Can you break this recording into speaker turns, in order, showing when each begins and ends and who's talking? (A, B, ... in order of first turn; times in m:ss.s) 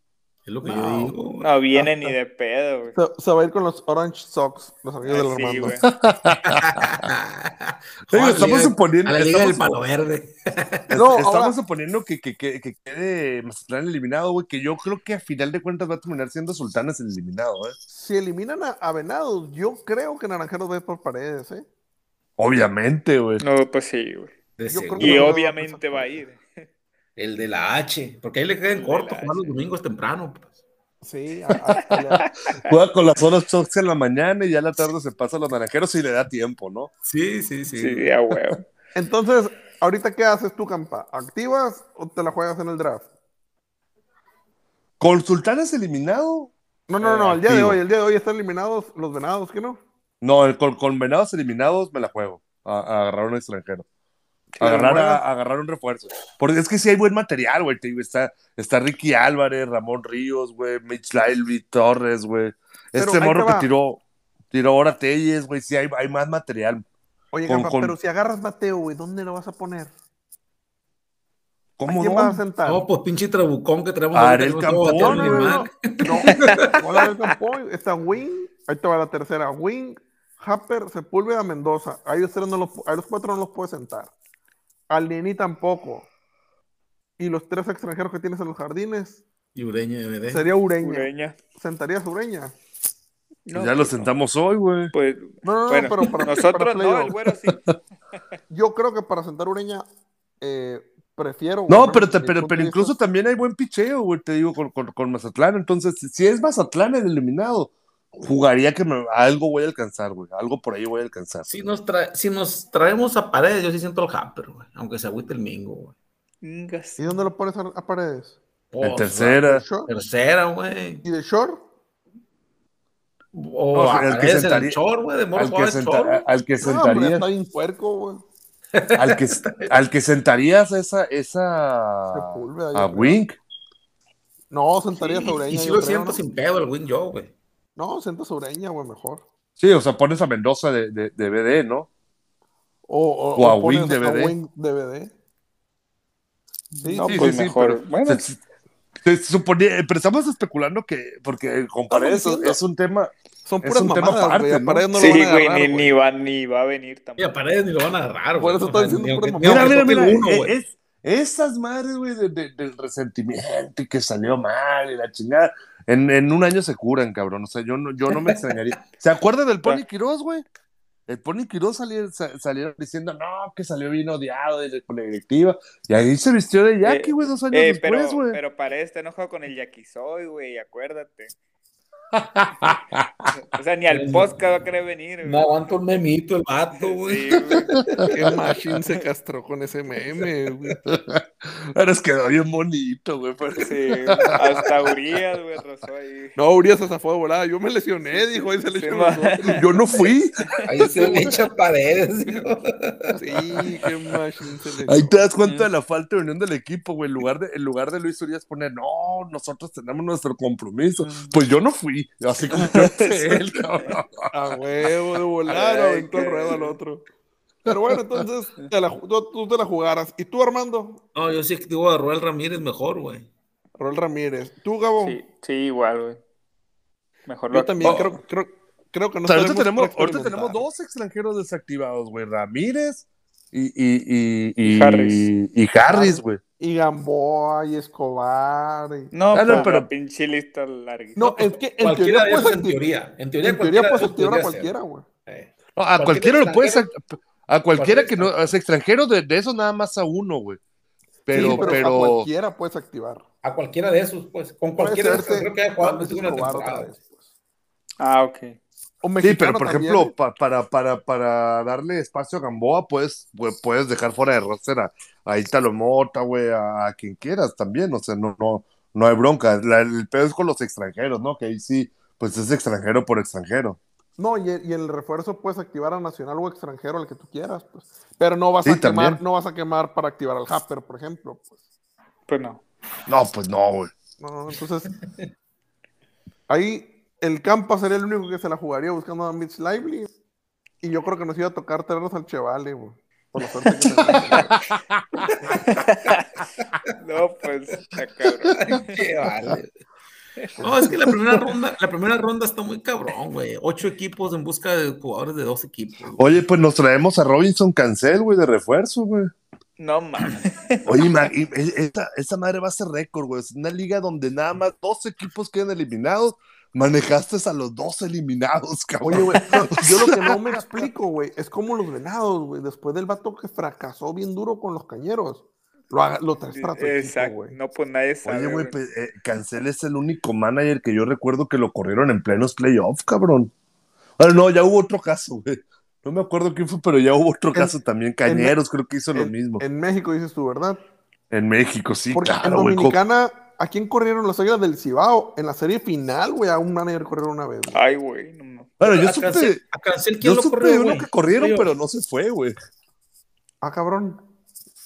0:00.4-0:01.5 A
0:00.6-0:01.2 B
0:01.4-0:03.0 C
0:01.7-0:02.1 B
0:02.9-0:05.8 B
0:05.0-0:05.9 C
0:05.8-0:07.0 D
0:06.5-0:10.8 A
0:08.1-0:09.8 D
0:10.9-0:17.8 D
0:10.9-0:11.6 B
0:17.9-0:21.6 B
0:22.4-0:23.4 D
0:23.4-0:24.3 C
0:24.6-0:25.3 A
0:24.7-0:26.0 B
0:25.0-0:26.6 C
0:27.2-0:30.6 A
0:28.7-0:29.6 C
0:31.0-0:32.2 B
0:32.2-0:32.7 C
0:32.5-0:36.9 D
0:37.0-0:38.1 A
0:37.8-0:38.6 C
0:38.9-0:43.1 B
0:45.0-0:46.5 D
0:46.9-0:49.8 B
0:47.0-0:47.8 D
0:50.2-0:53.8 D
0:54.6-0:55.2 B
0:54.6-1:06.8 D
1:03.0-1:03.7 B
1:07.3-1:09.9 B
1:07.5-1:07.9 D
1:11.8-1:12.4 D
1:11.9-1:12.8 B
1:12.6-1:16.7 A
1:14.1-1:15.6 D
1:14.9-1:24.1 B
1:24.9-1:26.1 B
1:27.2-1:29.2 B
1:29.5-1:30.4 A
1:30.3-1:32.5 B
1:30.8-1:31.4 C
1:33.4-1:34.1 C
1:33.5-1:34.9 D
1:34.9-1:37.8 C
1:35.4-1:37.2 B
1:38.5-1:39.8 B
1:40.4-1:42.9 B
1:41.7-1:51.4 D
1:51.5-1:56.0 A
1:56.4-1:57.0 C
1:57.0-1:58.4 B
1:58.7-2:01.0 A
1:58.8-1:59.6 D
1:59.4-1:59.9 B
2:01.0-2:01.6 B
2:03.3-2:06.2 A
2:03.7-2:04.8 D
2:05.3-2:07.2 D
2:06.6-2:08.2 B
2:08.7-2:09.7 A
2:09.0-2:13.4 D
2:12.1-2:13.2 B
2:14.5-2:16.2 B
2:15.0-2:17.3 A
2:17.8-2:19.2 B
2:19.6-2:21.9 D
2:22.9-2:25.1 B
2:23.4-2:24.3 D
2:26.8-2:27.4 B
2:26.8-2:28.2 C
2:27.0-2:28.4 D
2:29.0-2:33.1 D
2:31.9-2:32.6 B
2:33.4-2:35.9 B
2:33.6-2:34.8 D
2:34.9-2:37.3 C
2:37.2-2:40.5 A
2:38.4-2:40.0 B
2:39.4-2:50.4 D
2:48.2-2:48.5 A
2:51.1-2:58.4 D
2:56.8-3:01.3 C
3:02.1-3:03.3 D
3:03.3-3:05.5 C
3:03.9-3:04.4 A
3:05.2-3:08.1 A
3:06.8-3:08.0 C
3:08.1-3:10.8 B
3:10.8-3:14.9 D
3:13.6-3:16.4 C
3:16.4-3:19.6 B
3:18.1-3:19.6 C
3:19.4-3:21.3 D
3:20.6-3:23.2 A
3:23.2-3:25.3 B
3:24.9-3:34.3 D
3:25.4-3:25.7 C
3:31.0-3:31.3 C
3:32.5-3:33.9 C
3:34.3-3:37.0 B
3:35.5-3:36.7 C
3:37.6-3:41.0 B
3:41.1-3:43.3 A
3:43.8-3:45.2 B
3:45.0-3:46.2 C
3:47.3-3:48.0 C
3:47.5-3:50.6 B
3:49.3-3:56.4 D
3:54.6-3:55.3 C
3:55.9-3:59.7 B
3:59.1-4:01.3 C
3:59.3-3:59.9 D
4:01.2-4:02.8 B
4:01.8-4:04.7 A
4:03.4-4:05.0 B
4:05.3-4:06.8 A
4:05.8-4:10.6 D
4:07.7-4:08.5 A
4:11.2-4:12.3 D
4:11.3-4:13.2 B
4:11.4-4:11.8 A
4:13.4-4:16.9 A
4:14.8-4:17.2 B
4:18.0-4:18.6 C
4:19.0-4:20.1 B
4:19.2-4:33.8 D
4:34.2-4:41.6 B
4:38.6-4:39.2 D
4:42.3-4:42.6 C
4:43.1-4:43.9 D
4:44.2-4:44.9 B
4:46.5-4:50.1 B
4:50.8-4:54.5 B
4:54.7-4:55.3 D
4:55.5-4:56.4 C
4:56.9-4:59.0 C
4:58.6-4:59.7 A
5:00.6-5:06.4 A
5:06.2-5:09.3 D
5:09.8-5:11.1 C
5:10.8-5:20.9 D
5:19.0-5:27.5 B
5:26.5-5:28.8 C
5:28.2-5:33.5 D
5:34.2-5:39.6 D
5:38.2-5:38.5 B
5:39.1-5:40.8 B
5:41.3-5:43.0 D
5:42.1-5:47.8 B
5:47.7-5:48.7 C
5:48.8-5:49.6 D
5:48.8-5:51.7 A
5:50.2-5:52.6 D
5:53.6-5:54.2 B